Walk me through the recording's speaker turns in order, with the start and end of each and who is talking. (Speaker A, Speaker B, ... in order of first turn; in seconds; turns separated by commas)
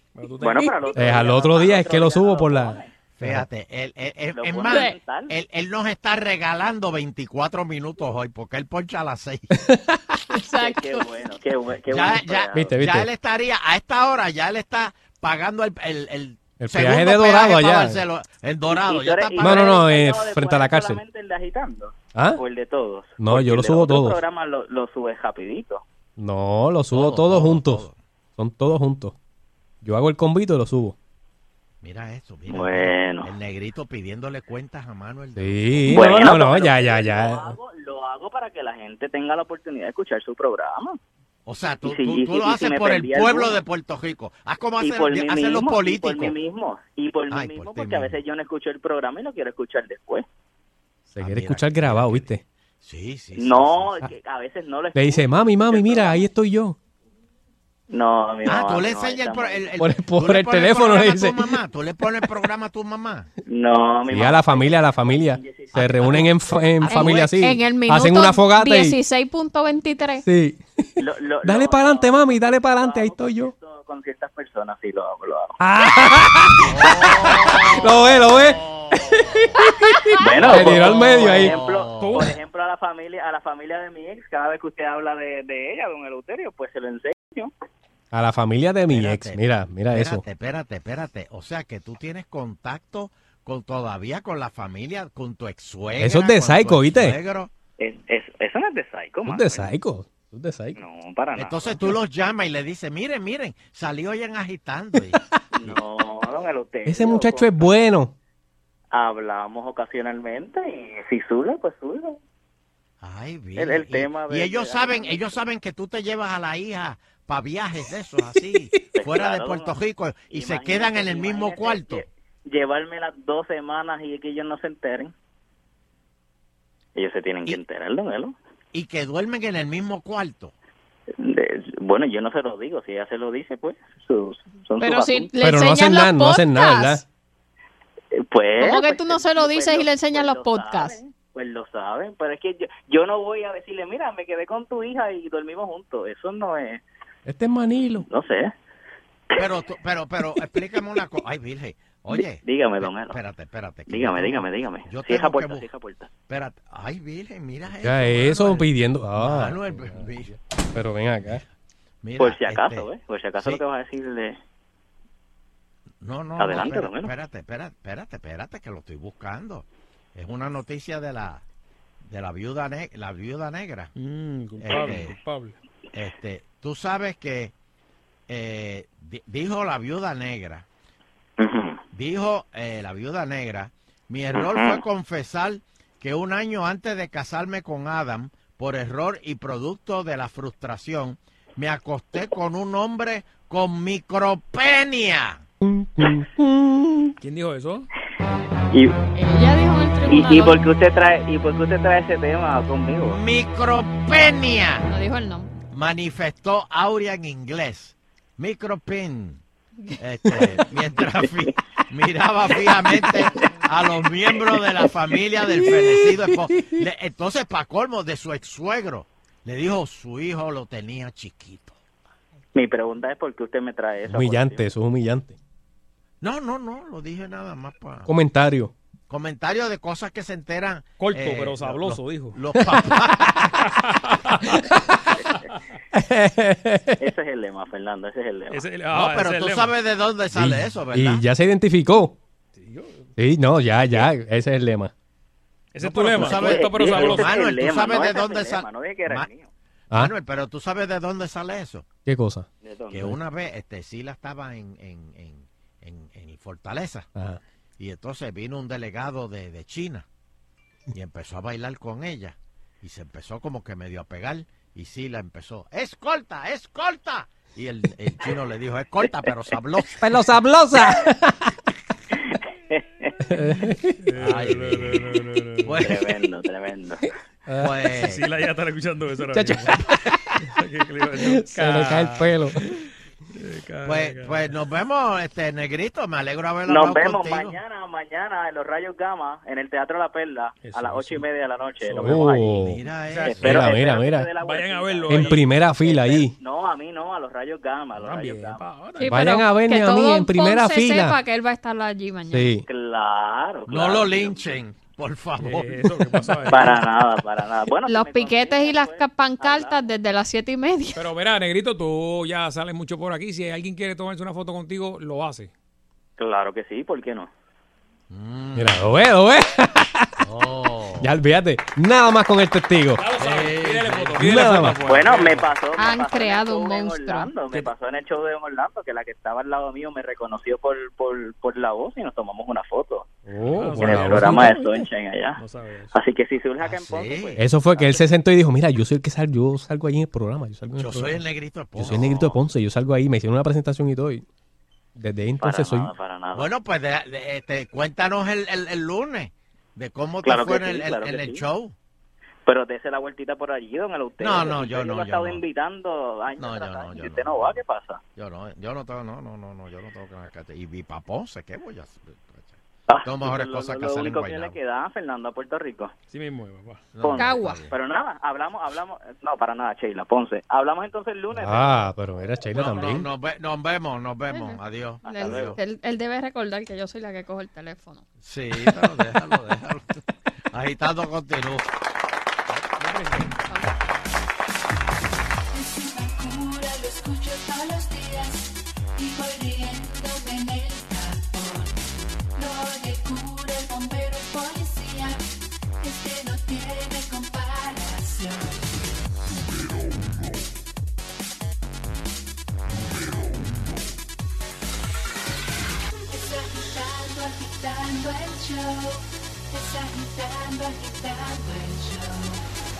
Speaker A: 0.1-1.3, Speaker B: 0.4-2.9, Speaker C: 0.9-3.5, Speaker D: 3.2-9.5, Speaker B: 4.3-5.3, Speaker E: 4.7-4.9, Speaker C: 9.7-10.0, Speaker E: 10.3-11.0, Speaker B: 10.6-12.8, Speaker D: 11.9-19.8, Speaker C: 12.5-13.1, Speaker C: 16.6-18.0, Speaker B: 18.7-25.8, Speaker C: 19.4-21.0, Speaker C: 22.1-22.4, Speaker C: 23.2-24.2, Speaker C: 26.2-27.9, Speaker D: 26.9-28.0, Speaker C: 28.4-29.1, Speaker C: 29.8-30.9, Speaker D: 31.8-36.4, Speaker B: 32.5-33.3, Speaker C: 35.4-37.5, Speaker B: 35.9-41.0, Speaker D: 41.5-46.3, Speaker B: 41.8-43.6, Speaker B: 44.8-50.2, Speaker D: 47.3-48.2, Speaker C: 51.1-52.4, Speaker D: 51.2-52.3, Speaker D: 52.8-54.0, Speaker B: 53.4-56.2, Speaker C: 54.9-56.8, Speaker B: 57.9-59.7, Speaker D: 58.5-63.3, Speaker C: 59.8-61.4, Speaker B: 63.5-66.3, Speaker C: 64.1-69.0, Speaker D: 66.8-67.5, Speaker E: 66.9-70.2, Speaker C: 70.2-70.9, Speaker B: 71.0-75.6, Speaker C: 71.4-73.5, Speaker C: 75.6-81.5, Speaker D: 76.7-77.9, Speaker B: 80.2-87.5, Speaker D: 80.3-82.3, Speaker A: 82.0-82.3, Speaker C: 88.1-90.2, Speaker D: 88.9-97.5, Speaker C: 96.0-97.2, Speaker B: 97.8-99.7, Speaker C: 99.3-100.7, Speaker B: 100.8-101.9, Speaker D: 101.3-105.8, Speaker B: 105.5-107.7, Speaker C: 106.9-108.1, Speaker B: 108.9-112.2, Speaker D: 113.0-122.0, Speaker B: 113.6-115.3, Speaker B: 118.9-119.7, Speaker B: 120.3-125.1, Speaker B: 127.0-128.3, Speaker D: 128.7-130.5, Speaker B: 131.2-135.3, Speaker E: 134.8-137.0, Speaker C: 135.4-137.0, Speaker B: 138.2-146.8, Speaker E: 138.6-140.9, Speaker C: 147.2-148.0, Speaker B: 148.1-148.5, Speaker D: 149.4-155.6, Speaker B: 152.1-153.2, Speaker B: 153.9-156.1, Speaker D: 156.3-160.3, Speaker C: 157.8-160.1, Speaker C: 160.7-161.4, Speaker D: 162.0-162.9, Speaker B: 162.2-164.4, Speaker D: 166.0-171.4, Speaker B: 166.4-167.1, Speaker D: 172.0-173.9, Speaker A: 173.9-175.5, Speaker D: 174.6-175.2, Speaker D: 175.9-177.5, Speaker D: 178.3-180.7, Speaker B: 181.4-181.8, Speaker D: 181.9-195.4, Speaker B: 184.3-184.8, Speaker C: 195.6-197.0, Speaker A: 197.2-197.9, Speaker E: 199.2-200.6, Speaker B: 200.1-203.2, Speaker D: 203.0-204.8, Speaker E: 204.8-205.5, Speaker D: 205.7-209.4, Speaker D: 210.0-221.8, Speaker C: 215.5-216.6, Speaker B: 222.5-224.6, Speaker C: 224.1-225.4, Speaker D: 226.2-228.1, Speaker C: 228.1-228.7, Speaker D: 229.1-233.4, Speaker A: 231.0-232.4, Speaker A: 233.6-234.4, Speaker A: 235.3-235.6, Speaker C: 235.9-237.0, Speaker B: 237.0-238.7, Speaker A: 238.5-239.7, Speaker D: 238.9-241.2, Speaker C: 240.3-242.2, Speaker A: 242.6-243.1, Speaker C: 243.2-244.9, Speaker A: 245.7-247.4, Speaker D: 245.8-249.3, Speaker B: 246.2-249.5, Speaker D: 249.9-251.8, Speaker C: 252.1-252.4, Speaker B: 252.6-253.1, Speaker D: 252.9-257.1, Speaker D: 257.8-260.1, Speaker D: 260.9-270.0, Speaker C: 270.0-271.5, Speaker B: 272.7-273.1, Speaker C: 273.3-273.9, Speaker A: 274.0-275.9, Speaker D: 274.2-276.1, Speaker B: 275.8-277.0, Speaker C: 277.5-277.7, Speaker D: 277.6-278.2, Speaker A: 278.0-279.8, Speaker C: 279.3-279.9, Speaker A: 280.4-282.3, Speaker C: 281.2-282.6, Speaker A: 283.4-284.5, Speaker D: 283.8-287.6, Speaker B: 286.7-292.6, Speaker A: 290.6-291.3, Speaker A: 291.8-292.5, Speaker C: 292.0-292.8, Speaker D: 292.6-293.7, Speaker A: 293.1-293.7, Speaker B: 293.2-298.6, Speaker C: 293.3-294.3, Speaker A: 294.4-295.4, Speaker C: 295.1-296.3, Speaker A: 298.0-299.2, Speaker E: 299.0-302.6, Speaker C: 299.1-301.2, Speaker C: 302.3-302.6, Speaker B: 302.7-304.6, Speaker D: 303.7-305.9, Speaker A: 305.4-306.9, Speaker B: 306.4-309.8, Speaker E: 307.9-311.0, Speaker A: 310.9-315.5, Speaker B: 316.2-317.3, Speaker D: 318.1-318.8, Speaker C: 318.6-320.1, Speaker D: 320.2-321.1, Speaker C: 321.0-323.0, Speaker A: 323.0-325.5, Speaker D: 323.2-324.2, Speaker C: 324.2-324.8, Speaker B: 324.8-333.1, Speaker E: 325.8-327.3, Speaker C: 333.3-334.8, Speaker A: 333.5-334.8, Speaker B: 333.7-335.4, Speaker A: 335.4-335.9, Speaker B: 335.9-338.0, Speaker D: 336.6-337.4, Speaker C: 337.4-341.2, Speaker D: 340.8-342.4, Speaker C: 341.7-344.2, Speaker C: 345.0-345.9, Speaker B: 345.4-346.5, Speaker D: 346.3-351.7, Speaker B: 350.2-351.4, Speaker B: 352.4-358.0, Speaker D: 354.2-355.4, Speaker D: 356.4-357.6, Speaker D: 358.1-364.6, Speaker B: 362.9-365.9, Speaker A: 366.1-366.8, Speaker D: 366.9-367.7, Speaker B: 367.0-371.9, Speaker E: 367.2-367.6, Speaker C: 371.3-373.1, Speaker D: 372.5-375.6, Speaker E: 374.3-378.0, Speaker B: 375.0-375.6, Speaker D: 378.2-380.0, Speaker D: 380.5-381.6, Speaker A: 382.5-383.3, Speaker E: 383.5-383.7, Speaker F: 385.5-391.8, Speaker F: 392.4-395.2, Speaker F: 395.8-398.8, Speaker F: 406.1-412.4